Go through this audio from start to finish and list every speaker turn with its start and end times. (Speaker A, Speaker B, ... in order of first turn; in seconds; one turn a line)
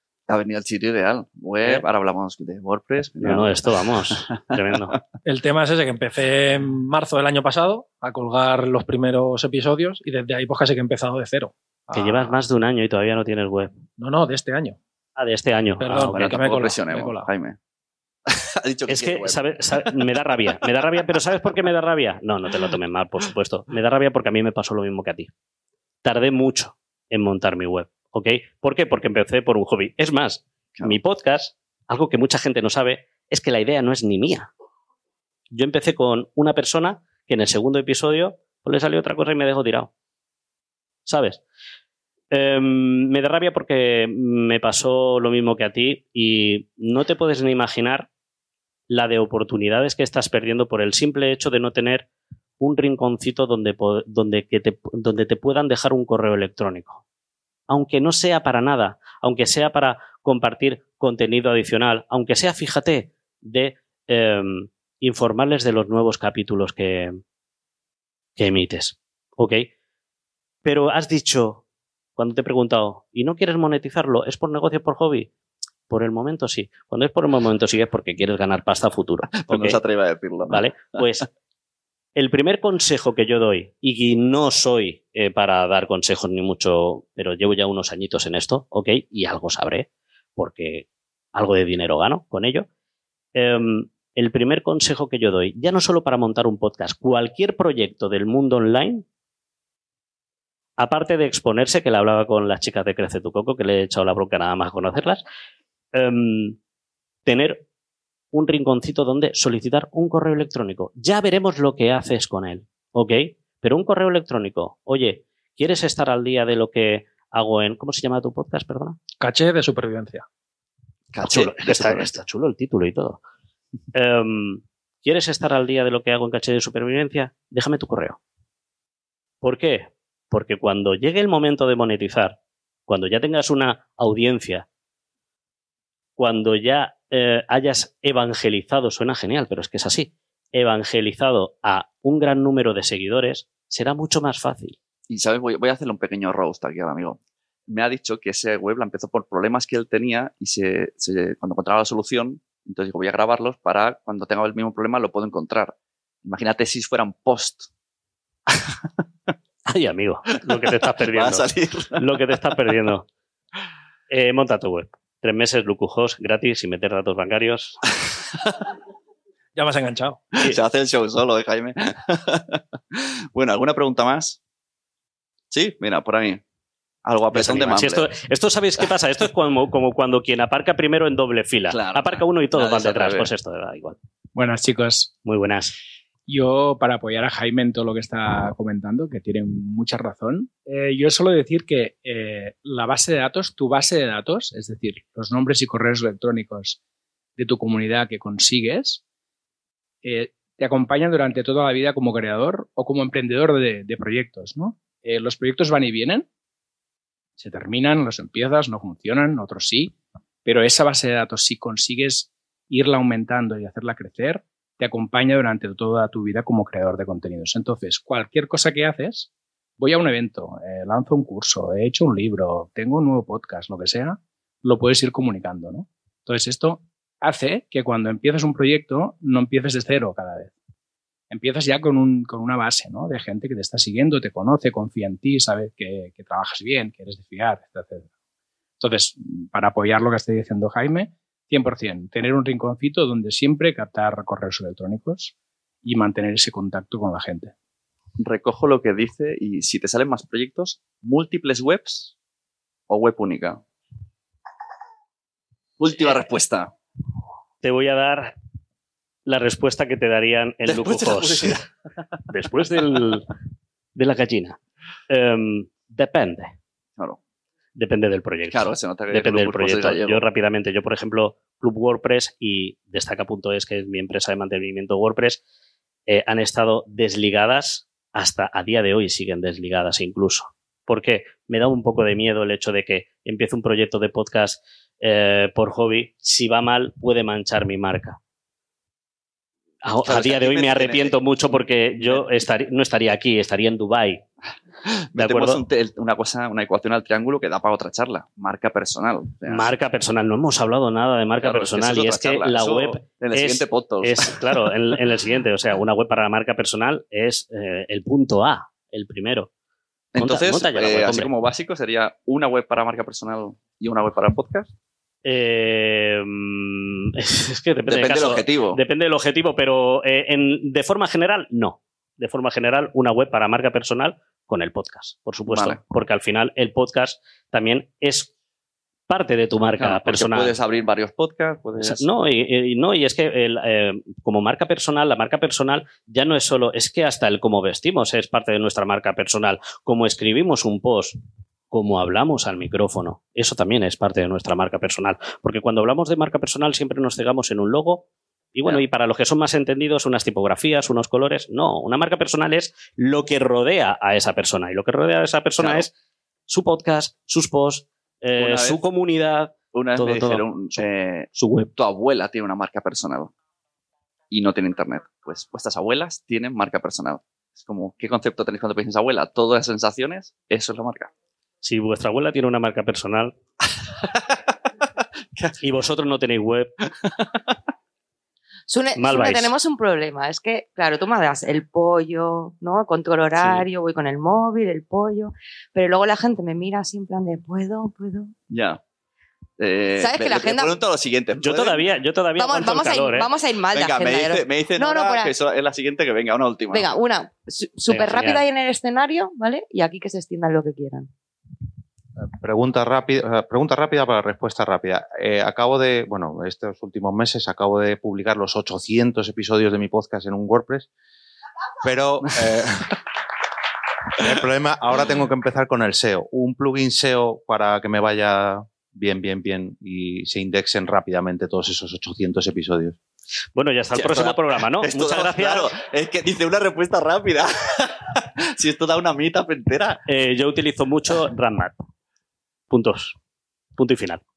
Speaker A: 0.3-5.0
Speaker B: 3.2-5.0
Speaker C: 5.2-12.3
Speaker B: 11.9-13.7
Speaker C: 14.0-14.8
Speaker B: 15.2-16.4
Speaker C: 15.8-17.3
Speaker A: 16.1-17.6
Speaker A: 18.3-20.1
Speaker B: 18.9-25.3
Speaker A: 20.6-21.5
Speaker B: 26.0-34.5
Speaker B: 35.5-39.9
Speaker B: 41.0-41.4
Speaker B: 42.3-48.1
Speaker B: 48.9-52.1
Speaker B: 52.6-57.0
Speaker B: 57.7-67.2
Speaker B: 68.4-69.7
Speaker B: 70.6-71.6
Speaker B: 72.2-75.3
Speaker B: 75.9-79.8
Speaker A: 79.3-81.1
Speaker B: 80.5-81.3
Speaker B: 82.2-92.7
Speaker B: 93.3-99.0
Speaker B: 100.8-105.2
Speaker B: 105.9-106.6
Speaker B: 107.2-107.6
Speaker B: 108.3-119.0
Speaker C: 119.2-120.2
Speaker A: 121.1-122.1
Speaker B: 121.2-123.2
Speaker B: 123.9-128.2
Speaker B: 129.4-132.3
Speaker B: 132.9-134.7
Speaker B: 136.2-144.8
Speaker A: 145.1-157.7
Speaker A: 158.5-158.8
Speaker B: 159.7-163.1
Speaker A: 161.1-162.0
Speaker B: 164.1-167.8
Speaker C: 169.6-170.2
Speaker A: 170.3-174.4
Speaker A: 175.5-176.4
Speaker A: 177.0-178.1
Speaker B: 177.3-184.0
Speaker A: 181.7-183.3
Speaker D: 184.3-185.1
Speaker B: 185.2-185.8
Speaker D: 186.3-196.8
Speaker D: 197.4-199.0
Speaker D: 200.0-206.3
Speaker D: 207.4-230.5
Speaker D: 231.3-238.1
Speaker D: 238.8-247.5
Speaker A: 248.2-252.1
Speaker A: 252.9-253.6
Speaker A: 255.8-256.7
Speaker B: 257.6-258.3
Speaker B: 259.2-261.6
Speaker A: 260.6-261.6
Speaker B: 262.3-263.2
Speaker B: 263.9-264.6
Speaker B: 265.1-266.5
Speaker B: 267.8-275.4
Speaker A: 268.5-270.2
Speaker B: 276.1-288.2
Speaker B: 289.8-294.2
Speaker A: 290.0-292.3
Speaker A: 294.9-299.7
Speaker B: 295.1-295.6
Speaker B: 299.5-309.5
Speaker A: 301.4-304.7
Speaker A: 310.1-314.7
Speaker B: 310.2-311.3
Speaker B: 315.2-328.3
Speaker A: 317.9-318.8
Speaker A: 325.5-325.8
Speaker B: 329.1-330.5
Speaker A: 329.8-332.1
Speaker B: 331.8-341.2
Speaker B: 341.7-355.9
Speaker A: 355.6-355.9
Speaker B: 356.5-360.8
Speaker A: 358.4-358.8
Speaker A: 359.7-363.3
Speaker B: 361.3-361.7
Speaker A: 364.3-371.1
Speaker B: 371.6-373.3
Speaker A: 373.9-374.5
Speaker B: 375.6-376.7
Speaker A: 377.0-377.5
Speaker E: 378.7-388.3
Speaker B: 378.9-379.5
Speaker A: 388.5-388.8
Speaker A: 389.6-391.8
Speaker E: 390.0-390.8
Speaker B: 391.4-393.3
Speaker E: 392.4-395.3
Speaker A: 393.7-396.9
Speaker E: 396.7-401.1
Speaker B: 397.9-398.4
Speaker F: 402.4-410.9
Speaker F: 411.8-412.9
Speaker F: 414.2-423.0
Speaker B: 423.6-425.7
Speaker A: 423.9-430.0
Speaker B: 430.1-431.8
Speaker B: 432.7-433.2
Speaker B: 433.8-434.2